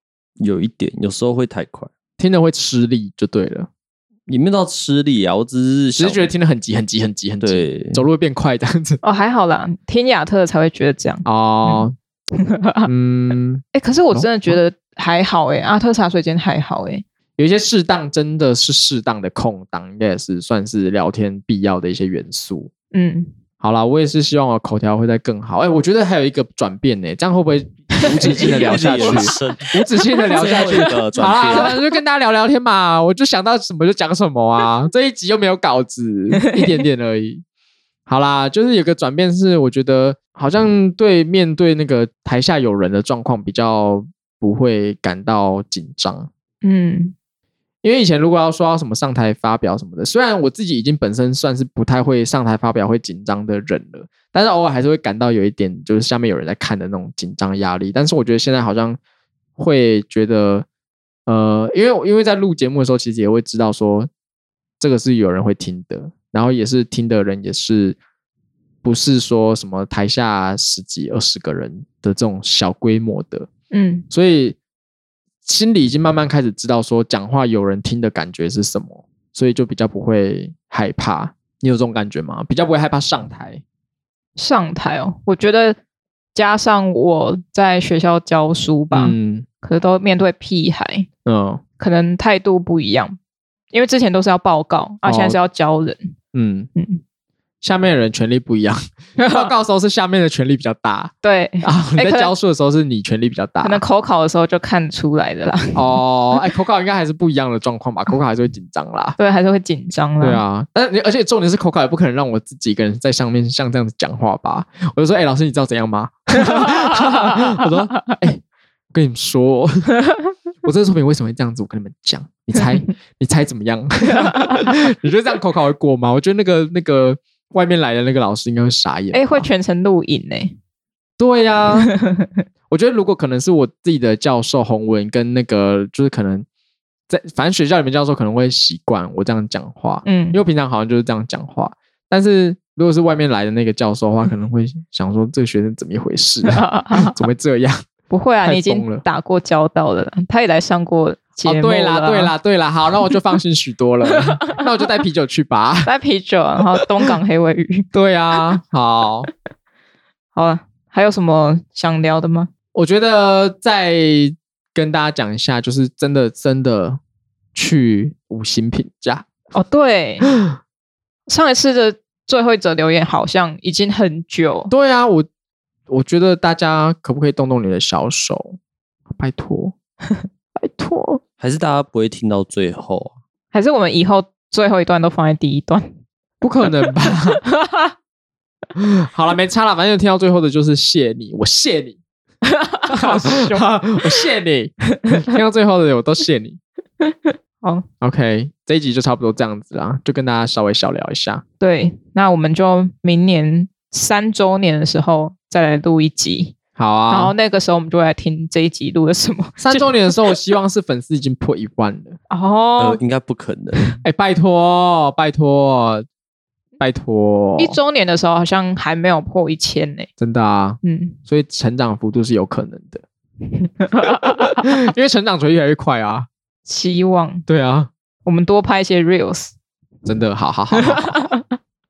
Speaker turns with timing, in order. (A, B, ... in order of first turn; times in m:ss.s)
0:00.4-0:01.9 A
0:02.2-0:03.7 B
0:04.3-0:06.3 A
0:06.0-0:09.0 B
0:07.4-0:08.0 A
0:09.0-0:12.9 C
0:11.2-0:11.9 B
0:12.9-0:14.6 B
0:13.7-0:17.0 C
0:17.4-0:22.7 B
0:22.9-0:23.3 C
0:23.6-0:37.4 B
0:28.0-0:29.7 A
0:28.2-0:29.4 C
0:30.1-0:31.8 C
0:30.4-0:31.7 A
0:36.4-0:36.7 C
0:38.1-0:46.3 B
0:46.6-0:47.1 C
0:47.8-0:59.0 B
0:59.6-1:00.7 B
1:01.3-1:04.1 B
1:04.8-1:08.0 B
1:08.8-1:13.5 B
1:13.7-1:14.1 C
1:14.1-1:14.6 B
1:15.4-1:23.6 B
1:24.4-1:25.8 C
1:26.4-1:31.1 C
1:28.9-1:29.5 B
1:31.2-1:31.6 B
1:31.8-1:33.2 C
1:33.7-1:36.1 C
1:35.0-1:35.4 B
1:36.3-1:36.7 B
1:36.8-1:37.0 C
1:37.6-1:43.8 B
1:39.2-1:39.5 C
1:41.2-1:42.3 C
1:43.6-1:46.0 C
1:45.7-1:49.2 B
1:49.2-1:50.4 C
1:50.2-1:58.4 B
1:56.6-1:57.1 C
1:58.9-2:00.0 B
2:00.6-2:09.5 B
2:04.2-2:04.7 C
2:09.1-2:10.6 C
2:11.2-2:11.9 B
2:11.8-2:12.3 C
2:12.7-2:16.5 B
2:17.1-2:27.8 B
2:20.0-2:20.4 C
2:26.4-2:27.2 C
2:28.1-2:32.3 C
2:28.4-2:29.0 B
2:31.4-2:35.9 B
2:35.8-2:37.9 C
2:37.9-2:39.3 B
2:40.4-2:42.5 C
2:42.7-2:47.0 B
2:47.6-2:49.3 B
2:49.5-2:50.3 C
2:51.3-2:54.7 C
2:54.7-2:55.3 B
2:55.9-2:58.6 B
2:59.1-2:59.7 B
3:00.6-3:01.2 B
3:01.4-3:03.2 A
3:03.5-3:05.9 C
3:06.4-3:07.4 B
3:07.5-3:07.9 C
3:08.8-3:12.0 B
3:12.5-3:13.7 C
3:12.9-3:16.6 B
3:15.0-3:15.2 C
3:17.0-3:17.8 C
3:18.0-3:21.4 B
3:21.6-3:26.6 C
3:26.8-3:27.3 B
3:27.1-3:30.2 C
3:29.6-3:32.2 B
3:32.3-3:33.0 C
3:32.8-3:34.0 A
3:34.0-3:36.1 B
3:36.8-3:37.8 B
3:37.6-3:40.1 C
3:40.2-3:43.0 B
3:40.8-3:41.2 C
3:43.6-3:44.7 C
3:44.4-3:46.3 B
3:46.7-3:47.5 C
3:47.5-3:47.9 B
3:48.2-3:49.5 C
3:50.0-3:51.3 B
3:50.7-3:51.6 C